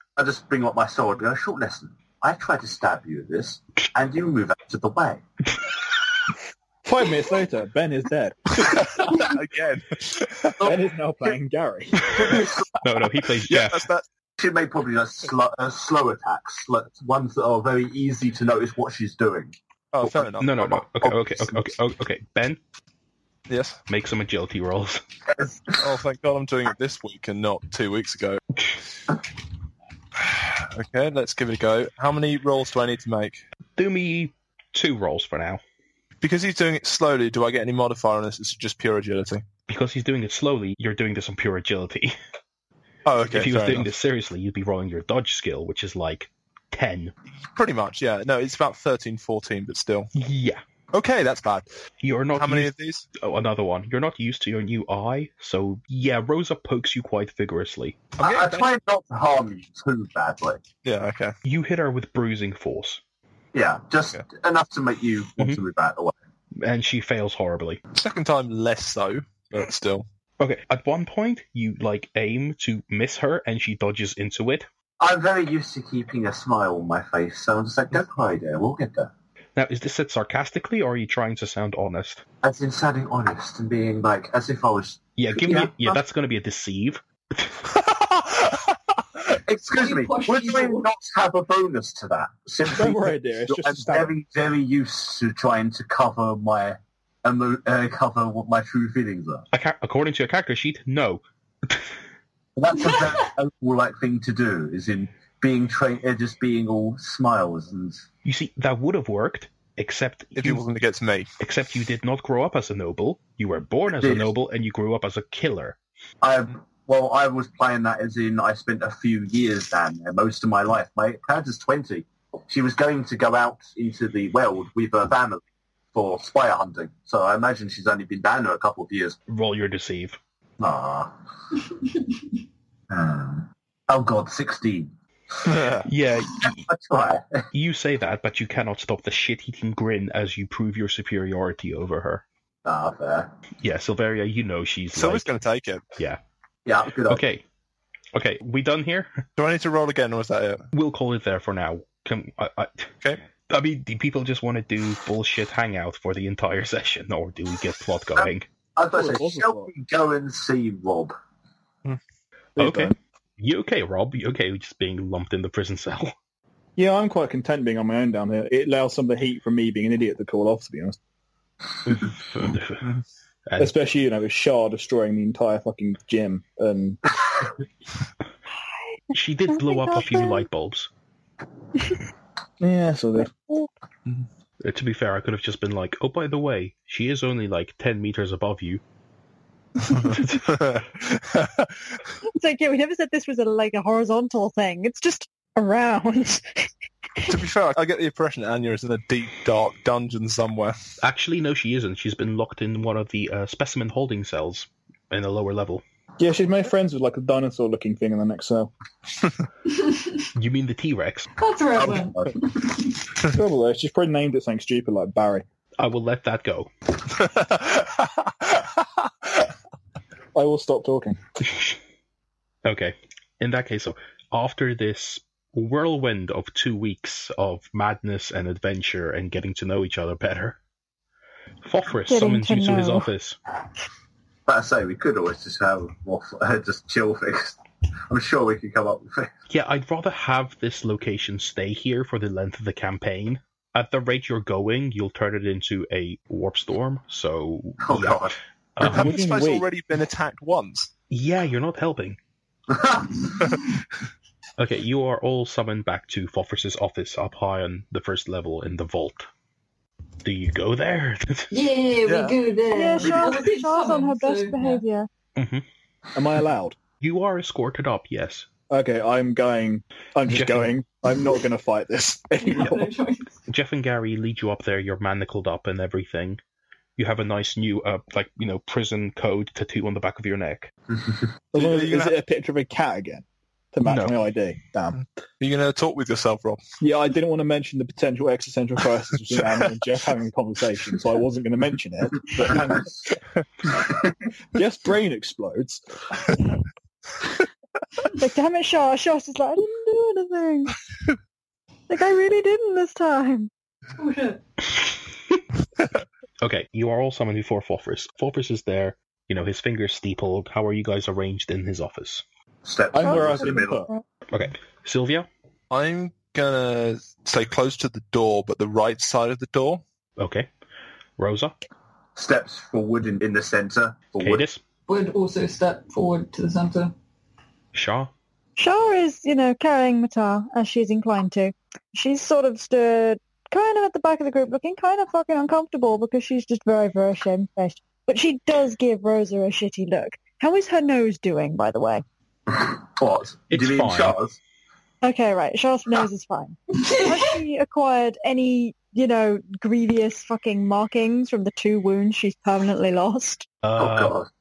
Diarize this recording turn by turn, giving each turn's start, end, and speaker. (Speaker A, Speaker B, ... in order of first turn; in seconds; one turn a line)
Speaker A: 0.2-5.2
Speaker B: 6.8-9.1
Speaker C: 8.6-10.6
Speaker A: 10.6-11.3
Speaker B: 10.6-12.4
Speaker A: 12.1-12.7
Speaker D: 12.8-13.8
Speaker C: 13.4-14.0
Speaker A: 14.4-20.2
Speaker C: 19.9-21.6
Speaker D: 20.4-22.6
Speaker C: 23.5-23.8
Speaker D: 23.9-25.0
Speaker A: 25.3-25.9
Speaker C: 25.8-28.4
Speaker C: 30.1-33.4
Speaker D: 33.8-35.6
Speaker C: 36.2-39.4
Speaker D: 39.7-42.1
Speaker C: 43.0-43.9
Speaker D: 43.3-47.1
Speaker C: 47.4-50.1
Speaker D: 50.1-50.6
Speaker C: 50.9-51.7
Speaker D: 52.0-58.0
Speaker C: 52.4-53.0
Speaker C: 58.2-58.6
Speaker A: 58.2-60.6
Speaker C: 60.8-61.3
Speaker D: 61.4-63.0
Speaker A: 63.5-66.1
Speaker D: 66.6-67.8
Speaker C: 67.9-70.0
Speaker D: 70.4-74.7
Speaker A: 75.0-79.1
Speaker D: 79.5-82.2
Speaker A: 82.4-86.0
Speaker D: 85.2-87.5
Speaker C: 87.9-88.7
Speaker A: 89.3-99.5
Speaker E: 89.7-90.9
Speaker B: 92.8-94.1
Speaker D: 99.5-101.8
Speaker A: 102.5-108.0
Speaker D: 108.2-110.6
Speaker C: 110.3-111.3
Speaker D: 111.4-115.8
Speaker A: 114.0-114.3
Speaker A: 116.2-129.2
Speaker D: 129.3-130.2
Speaker A: 130.6-131.1
Speaker A: 132.9-134.9
Speaker C: 135.4-135.9
Speaker D: 135.8-136.7
Speaker A: 136.7-137.4
Speaker D: 137.5-142.2
Speaker A: 142.7-143.3
Speaker D: 143.6-145.3
Speaker C: 144.9-145.8
Speaker A: 146.7-147.2
Speaker D: 147.1-147.4
Speaker D: 148.1-149.2
Speaker C: 149.4-150.7
Speaker D: 150.7-152.9
Speaker D: 153.5-158.5
Speaker A: 158.2-161.1
Speaker B: 158.9-159.7
Speaker B: 162.6-162.9
Speaker D: 162.6-166.1
Speaker B: 166.8-171.0
Speaker D: 171.8-172.9
Speaker B: 173.6-177.0
Speaker D: 179.1-180.9
Speaker F: 179.5-180.4
Speaker B: 182.6-183.3
Speaker D: 184.6-188.8
Speaker C: 189.9-192.0
Speaker D: 190.0-190.6
Speaker F: 192.2-196.4
Speaker C: 197.3-200.8
Speaker D: 201.0-205.8
Speaker B: 206.2-208.7
Speaker E: 209.7-210.1
Speaker D: 210.3-211.3
Speaker E: 211.4-213.0
Speaker A: 211.8-212.3
Speaker B: 213.3-215.4
Speaker D: 215.8-216.7
Speaker C: 217.1-219.1
Speaker B: 220.3-221.2
Speaker D: 222.6-230.6
Speaker D: 231.6-233.4
Speaker F: 232.1-233.1
Speaker A: 234.5-239.3
Speaker D: 239.5-249.2
Speaker A: 247.8-248.4
Speaker C: 248.8-250.9
Speaker B: 248.8-249.7
Speaker D: 251.1-252.2
Speaker A: 252.7-253.6
Speaker D: 254.6-259.3
Speaker D: 260.2-261.5
Speaker E: 261.5-264.8
Speaker C: 262.1-262.4
Speaker F: 262.7-265.1
Speaker D: 265.4-265.6
Speaker B: 266.1-266.8
Speaker D: 267.0-268.4
Speaker B: 268.7-272.9
Speaker D: 270.3-270.7
Speaker E: 272.4-273.3
Speaker D: 273.5-276.4
Speaker D: 277.0-280.7
Speaker B: 281.5-285.0
Speaker C: 281.6-282.1
Speaker D: 283.8-284.2
Speaker C: 285.0-286.6
Speaker B: 286.8-292.9
Speaker B: 294.5-295.8
Speaker F: 298.1-300.8
Speaker F: 301.9-303.5
Speaker E: 304.0-304.4
Speaker D: 306.4-312.2
Speaker A: 312.6-313.8
Speaker B: 312.9-313.9
Speaker F: 313.1-314.0
Speaker D: 314.3-315.3
Speaker C: 315.7-319.8
Speaker D: 320.2-320.5
Speaker D: 321.2-321.5
Speaker A: 322.1-324.4
Speaker D: 324.2-324.6
Speaker E: 324.9-326.9
Speaker D: 327.7-328.1
Speaker F: 328.6-342.0
Speaker A: 342.5-344.4
Speaker D: 343.5-344.2
Speaker F: 345.0-353.4
Speaker E: 346.7-347.4
Speaker D: 353.6-354.2
Speaker A: 353.8-354.3